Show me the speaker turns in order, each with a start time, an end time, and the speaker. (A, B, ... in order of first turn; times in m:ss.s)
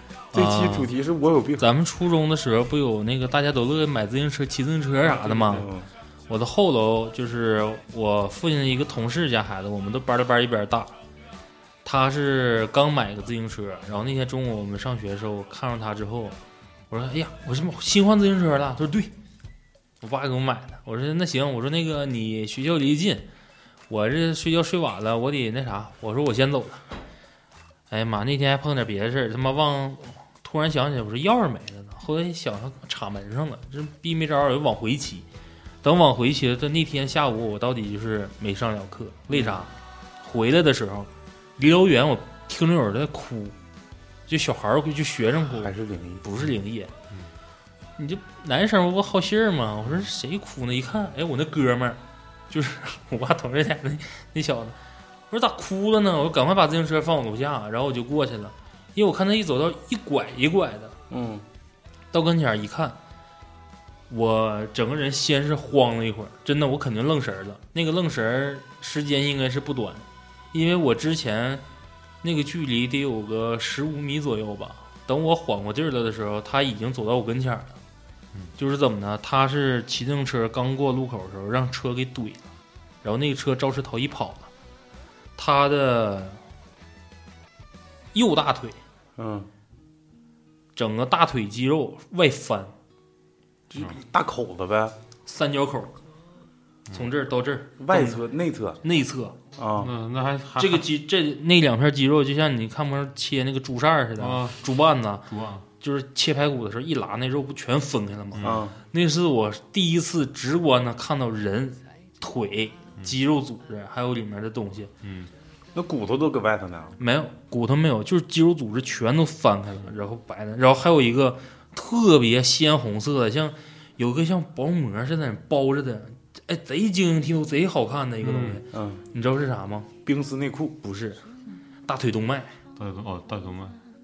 0:00.3-0:00.9 A
0:00.3-0:01.6 B
0:01.6-0:05.7 A
0:05.4-0:05.9 B
0:06.3-0:10.9 A
0:11.8-0:16.4 A
0:16.9-0:19.1 A
0:20.0-0:23.3 A
0:23.9-0:26.8 A
0:27.9-0:35.3 A
0:35.8-0:43.6 A
0:39.3-0:39.6 B
0:44.3-0:46.9 A
0:45.6-0:46.2 B
0:48.0-0:54.8 A
0:55.3-1:00.9 A
1:01.1-1:01.4 B
1:02.1-1:03.0 A
1:04.1-1:11.6 A
1:12.2-1:17.7 A
1:18.6-1:22.4 A
1:23.0-1:24.5 A
1:25.4-1:26.4 A
1:28.1-1:28.8 A
1:29.2-1:29.5 B
1:30.7-1:32.7 A
1:33.7-1:34.9 B
1:35.3-1:35.9 A
1:36.9-1:38.2 A
1:37.8-1:38.8 B
1:38.8-1:39.4 A
1:39.6-1:39.9 B
1:39.8-1:40.9 C
1:40.6-1:45.3 A
1:44.2-1:44.6 C
1:45.3-1:45.6 C
1:45.8-1:54.9 A
1:48.3-1:48.6 C
1:48.4-1:48.8 B
1:55.0-1:55.3 C
1:55.7-1:57.0 B
1:57.0-2:09.9 A
2:08.2-2:08.6 C
2:08.7-2:09.0 B
2:10.0-2:10.8 B
2:10.8-2:11.2 A
2:11.9-2:12.6 A
2:12.8-2:13.8 C